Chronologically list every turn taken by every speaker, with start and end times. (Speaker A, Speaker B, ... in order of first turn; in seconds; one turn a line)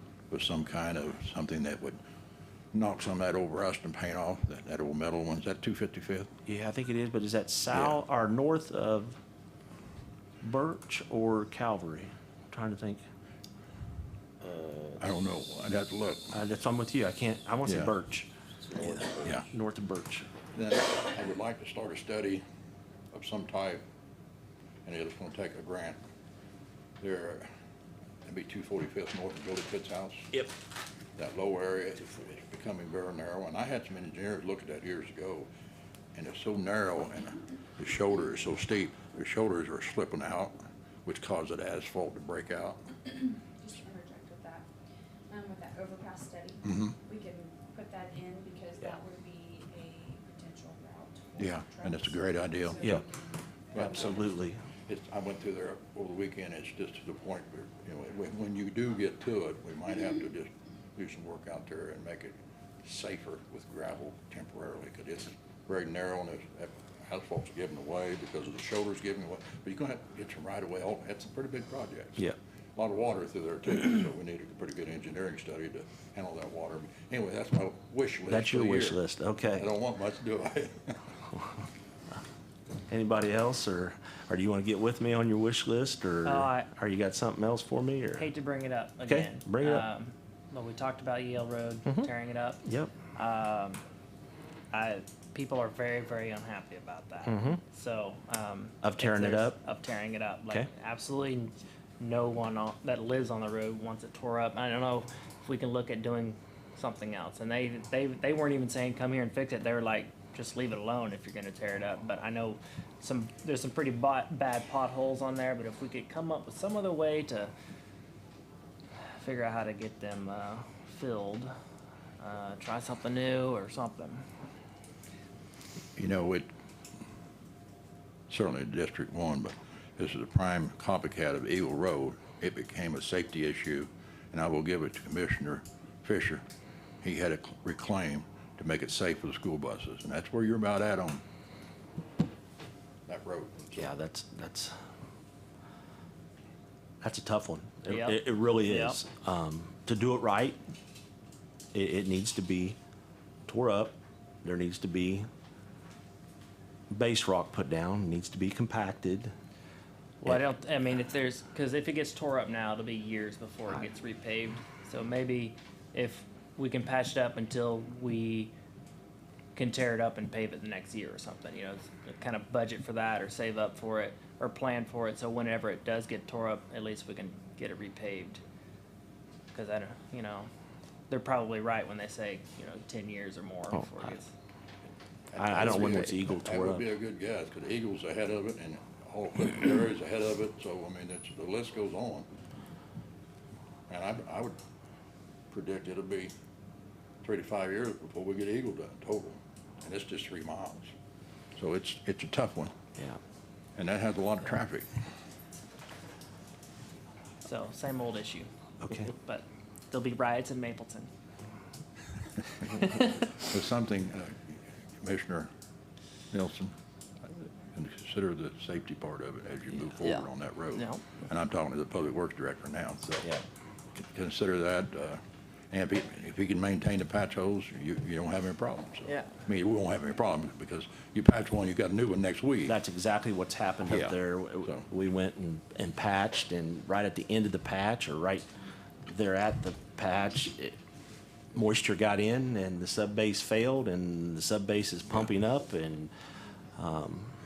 Speaker A: 0.3-2.0
Speaker A: 2.7-6.3
Speaker B: 6.5-9.2
Speaker A: 7.7-8.0
Speaker B: 10.4-13.0
Speaker B: 14.4-15.0
Speaker A: 15.0-16.4
Speaker B: 16.3-20.3
Speaker A: 17.6-17.9
Speaker A: 19.2-19.5
Speaker A: 20.5-22.4
Speaker A: 23.1-23.8
Speaker A: 24.8-26.0
Speaker A: 27.0-27.5
Speaker A: 28.2-30.3
Speaker A: 31.2-35.5
Speaker A: 36.1-42.8
Speaker C: 43.4-44.7
Speaker C: 45.3-54.4
Speaker A: 46.6-47.0
Speaker A: 51.4-53.0
Speaker A: 53.7-54.3
Speaker B: 53.7-54.6
Speaker A: 54.9-72.2
Speaker A: 72.8-79.0
Speaker B: 78.3-79.7
Speaker A: 79.5-81.0
Speaker B: 82.9-88.3
Speaker D: 86.2-86.7
Speaker D: 88.1-92.6
Speaker B: 89.0-89.8
Speaker B: 91.8-92.1
Speaker B: 92.6-92.9
Speaker D: 93.1-93.8
Speaker D: 94.7-117.5
Speaker B: 97.2-97.6
Speaker B: 98.8-99.6
Speaker D: 119.1-121.5
Speaker D: 122.2-124.3
Speaker A: 126.0-126.5
Speaker A: 128.3-136.4
Speaker A: 137.0-141.2
Speaker A: 143.1-143.9
Speaker B: 143.8-144.8
Speaker B: 147.0-150.6
Speaker D: 147.9-149.0
Speaker B: 151.7-152.8
Speaker B: 153.5-155.3
Speaker B: 156.9-159.3
Speaker D: 160.2-168.5
Speaker D: 169.5-178.4
Speaker D: 179.5-180.5
Speaker D: 181.1-184.3
Speaker B: 183.7-184.1
Speaker A: 185.3-192.3
Speaker B: 185.3-186.8
Speaker A: 193.9-194.6
Speaker A: 195.5-196.3
Speaker A: 197.2-200.9
Speaker A: 201.6-202.7
Speaker A: 203.8-204.9
Speaker D: 207.4-208.5
Speaker B: 208.8-209.1
Speaker D: 209.1-211.1
Speaker A: 212.7-215.5
Speaker A: 216.3-216.7
Speaker A: 217.2-223.3
Speaker D: 220.0-221.0
Speaker A: 223.9-232.8
Speaker D: 229.1-229.3
Speaker B: 232.7-238.5
Speaker A: 233.9-234.8
Speaker B: 239.0-240.8
Speaker B: 241.5-246.1
Speaker B: 246.8-247.3